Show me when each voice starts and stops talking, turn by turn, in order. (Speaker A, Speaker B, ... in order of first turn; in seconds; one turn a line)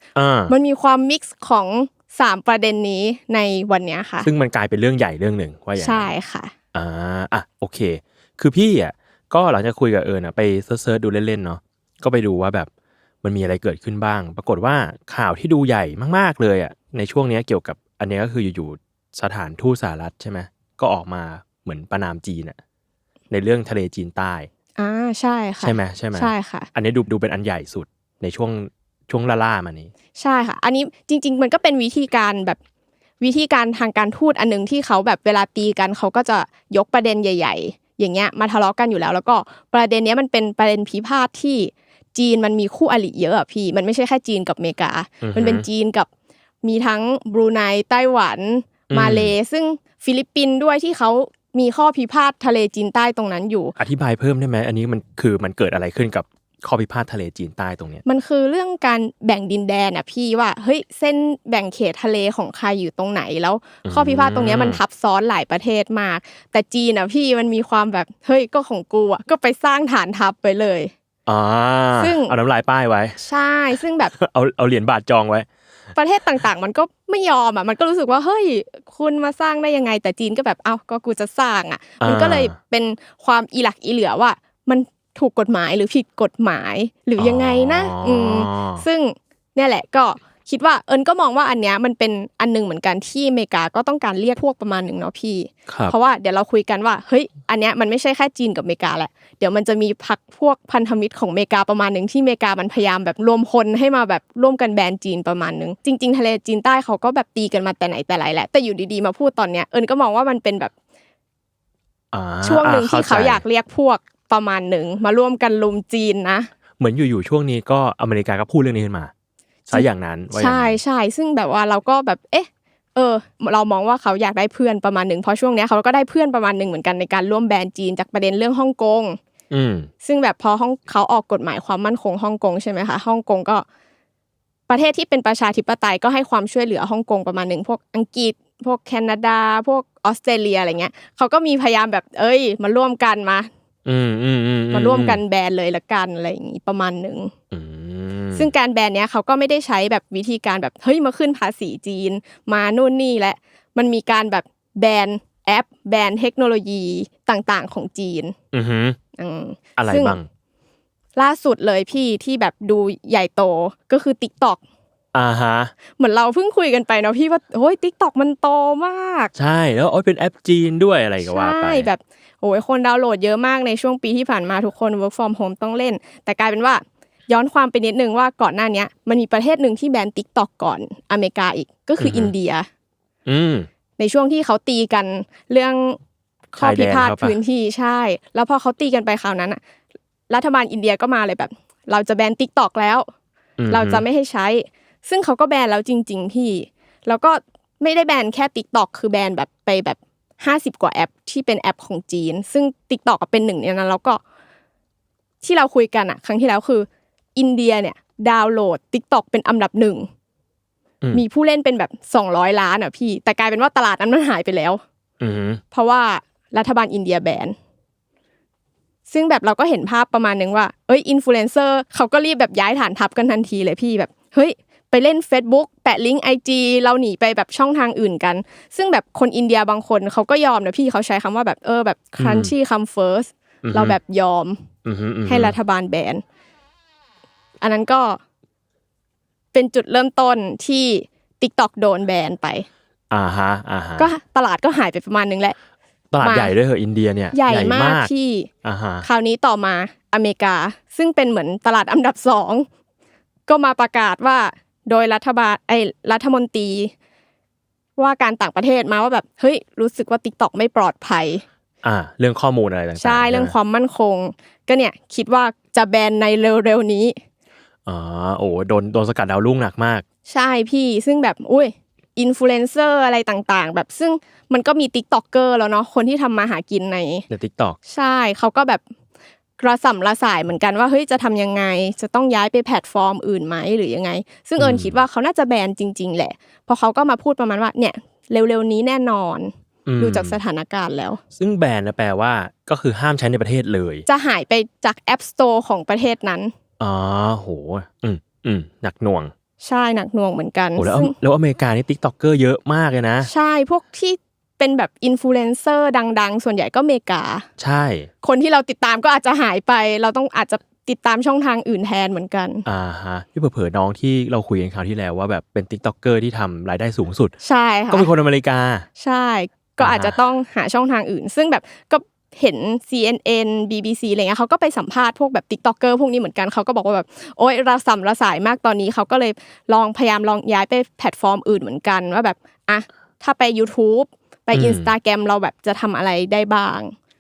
Speaker A: 0.2-0.5
Speaker B: 0.5-4.3
Speaker A: 4.2-6.1
Speaker B: 5.8-6.5
Speaker A: 6.7-12.7
Speaker A: 13.2-22.6
Speaker A: 23.3-24.5
Speaker B: 24.8-26.7
Speaker A: 25.6-29.9
Speaker B: 30.2-32.6
Speaker B: 33.2-46.1
Speaker A: 45.2-45.6
Speaker B: 46.6-53.8
Speaker A: 48.9-49.3
Speaker A: 53.8-58.0
Speaker B: 58.0-70.9
Speaker A: 63.9-64.8
Speaker A: 71.3-73.2
Speaker B: 72.0-72.3
Speaker B: 73.2-74.1
Speaker A: 74.2-75.5
Speaker B: 76.0-110.7
Speaker A: 82.0-82.5
Speaker A: 87.2-88.8
Speaker A: 95.7-95.9
Speaker A: 112.1-113.4
Speaker B: 112.4-116.5
Speaker A: 116.8-119.1
Speaker A: 119.7-120.8
Speaker B: 119.7-129.2
Speaker A: 129.5-129.9
Speaker B: 130.0-133.7
Speaker B: 134.7-143.5
Speaker A: 143.8-145.2
Speaker B: 144.7-147.3
Speaker A: 147.5-148.5
Speaker B: 148.3-158.3
Speaker A: 158.5-159.0
Speaker B: 159.2-160.2
Speaker A: 159.8-160.3
Speaker B: 161.2-164.6
Speaker A: 165.1-165.7
Speaker B: 166.0-169.3
Speaker A: 169.3-171.9
Speaker B: 171.2-182.7
Speaker A: 182.0-182.3
Speaker A: 183.3-183.7
Speaker B: 184.0-186.0
Speaker B: 186.5-189.6
Speaker A: 186.6-187.4
Speaker B: 190.3-193.1
Speaker A: 193.6-194.1
Speaker B: 193.7-204.2
Speaker B: 205.4-210.1
Speaker B: 211.1-214.8
Speaker A: 215.2-215.6
Speaker B: 215.7-217.6
Speaker B: 219.1-234.7
Speaker A: 232.2-232.5
Speaker A: 233.6-234.0
Speaker A: 234.8-235.6
Speaker B: 235.3-236.2
Speaker B: 237.6-238.2
Speaker B: 239.5-242.7
Speaker A: 243.1-244.1
Speaker B: 244.0-245.6
Speaker A: 246.1-248.1
Speaker B: 246.2-246.5
Speaker B: 247.3-248.5
Speaker A: 248.6-249.1
Speaker B: 249.0-252.7
Speaker B: 253.5-256.9
Speaker B: 258.0-261.4
Speaker A: 261.8-263.5
Speaker B: 263.0-267.2
Speaker A: 267.9-270.1
Speaker B: 270.3-277.3
Speaker A: 277.3-277.8
Speaker B: 277.9-278.8
Speaker B: 279.6-291.2
Speaker A: 284.6-285.0
Speaker A: 289.9-290.4
Speaker A: 291.4-294.1
Speaker B: 294.1-296.5
Speaker A: 296.8-299.3
Speaker B: 299.6-301.1
Speaker A: 300.8-303.3
Speaker B: 303.2-307.5
Speaker A: 307.6-308.1
Speaker B: 308.2-312.7
Speaker A: 312.7-317.4
Speaker B: 317.4-318.1
Speaker A: 317.9-318.9
Speaker B: 319.0-336.9
Speaker A: 319.8-320.1
Speaker A: 334.5-334.9